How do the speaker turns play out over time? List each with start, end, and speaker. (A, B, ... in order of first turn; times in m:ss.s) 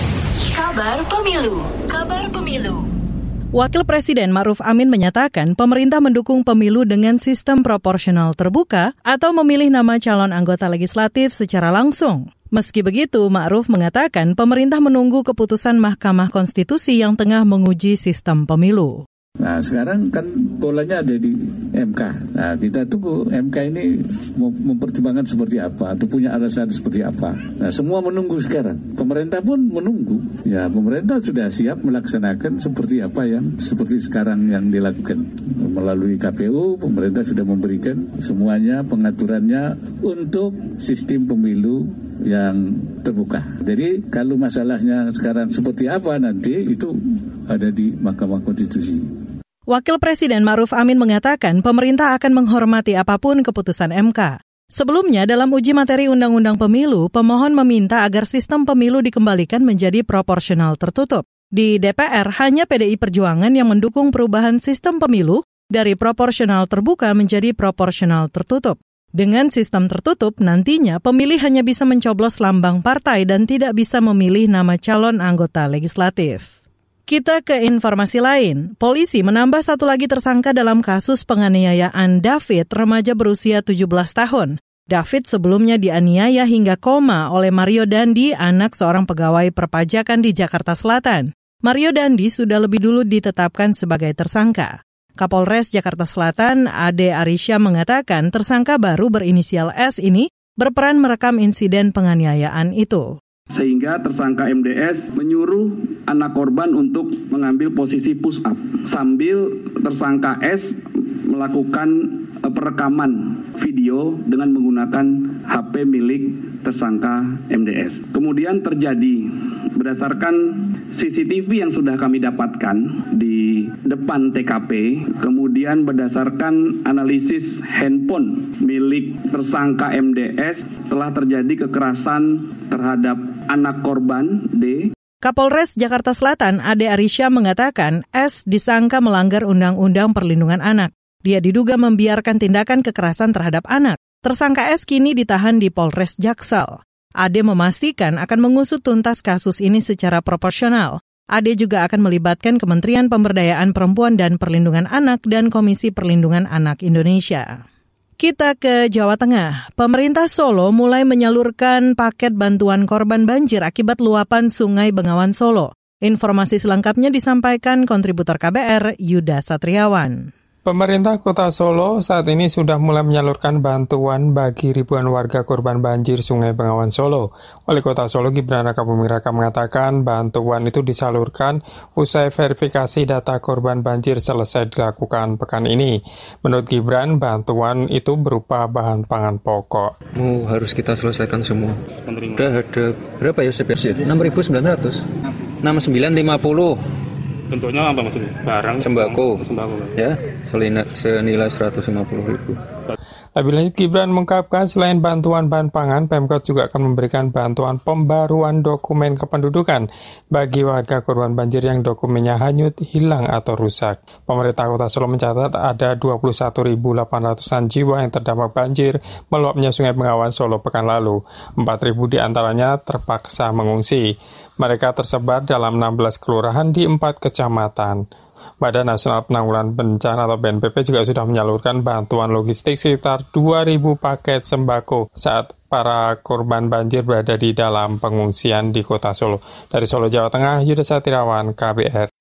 0:00.5-0:02.9 A
0:03.5-0:19.0 B
0:19.4-0:47.0 C
0:47.5-0:49.1 C
0:49.7-1:16.5 B
1:17.1-1:43.1 B
1:43.5-2:14.9 D
2:15.2-2:37.6 B
2:38.2-2:50.3 B
2:50.6-3:09.9 E
3:10.1-3:15.0 F
3:12.0-3:12.5 G
3:15.6-3:16.8 F
3:17.5-3:20.0 G
3:18.8-3:22.6 F
3:23.4-3:44.0 E
3:44.6-3:48.0 E
3:48.6-4:02.1 E